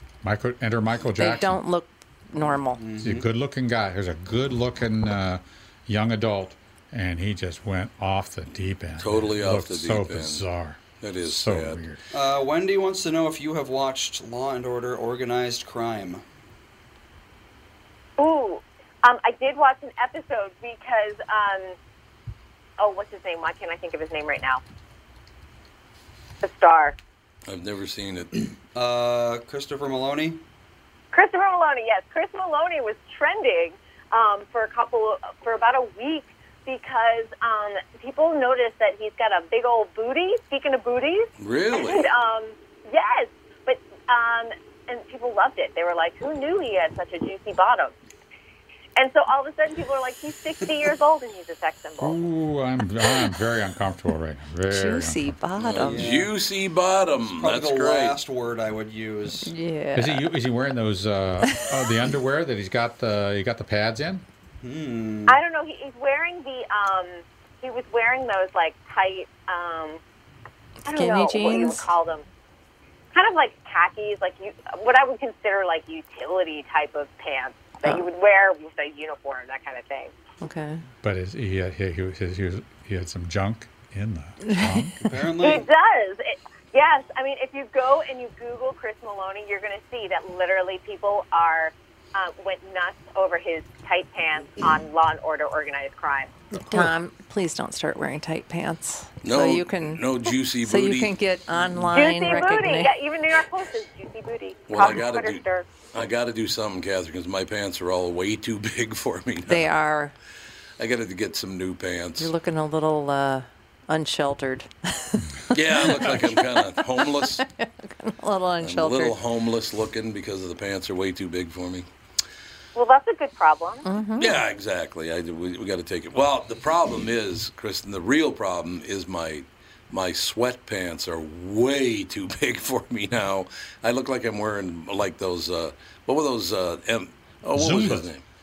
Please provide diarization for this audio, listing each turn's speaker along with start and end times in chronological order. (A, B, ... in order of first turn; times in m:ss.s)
0:00.2-0:01.6 A
0:01.2-0:02.8 B
0:02.8-0:03.3 C
0:03.0-0:12.0 A
0:09.0-0:10.4 D
0:11.0-0:11.8 D
0:12.1-0:16.2 C
0:18.2-0:21.7 E
0:22.8-0:24.6 E
0:26.4-0:27.0 E
0:27.5-0:28.5 D
0:28.7-0:30.4 C
0:31.1-0:47.9 E
0:41.4-0:42.1 D
0:49.0-0:52.2 E
0:52.0-0:55.3 A
0:54.7-0:56.1 B
0:55.6-0:58.2 D
0:55.8-0:56.3 C
0:57.2-0:59.5 C
0:59.4-1:00.3 B
0:59.9-1:04.2 A
1:01.4-1:01.9 B
1:04.6-1:05.4 C
1:05.3-1:10.0 E
1:10.8-1:11.9 B
1:10.8-1:12.2 E
1:13.1-1:20.1 E
1:20.4-1:20.8 B
1:21.0-1:25.1 A
1:24.4-1:24.9 B
1:25.0-1:25.7 C
1:25.4-1:36.3 E
1:36.6-1:36.9 A
1:36.7-1:40.0 B
1:39.2-1:41.1 D
1:40.6-1:42.9 B
1:41.9-1:45.6 E
1:44.7-1:49.7 D
1:49.5-1:50.1 B
1:50.8-1:52.3 D
1:52.2-1:59.2 B
1:55.5-1:57.4 D
1:58.6-2:01.9 D
2:02.7-2:03.8 E
2:03.8-2:04.4 B
2:04.2-2:18.2 D
2:17.6-2:18.1 A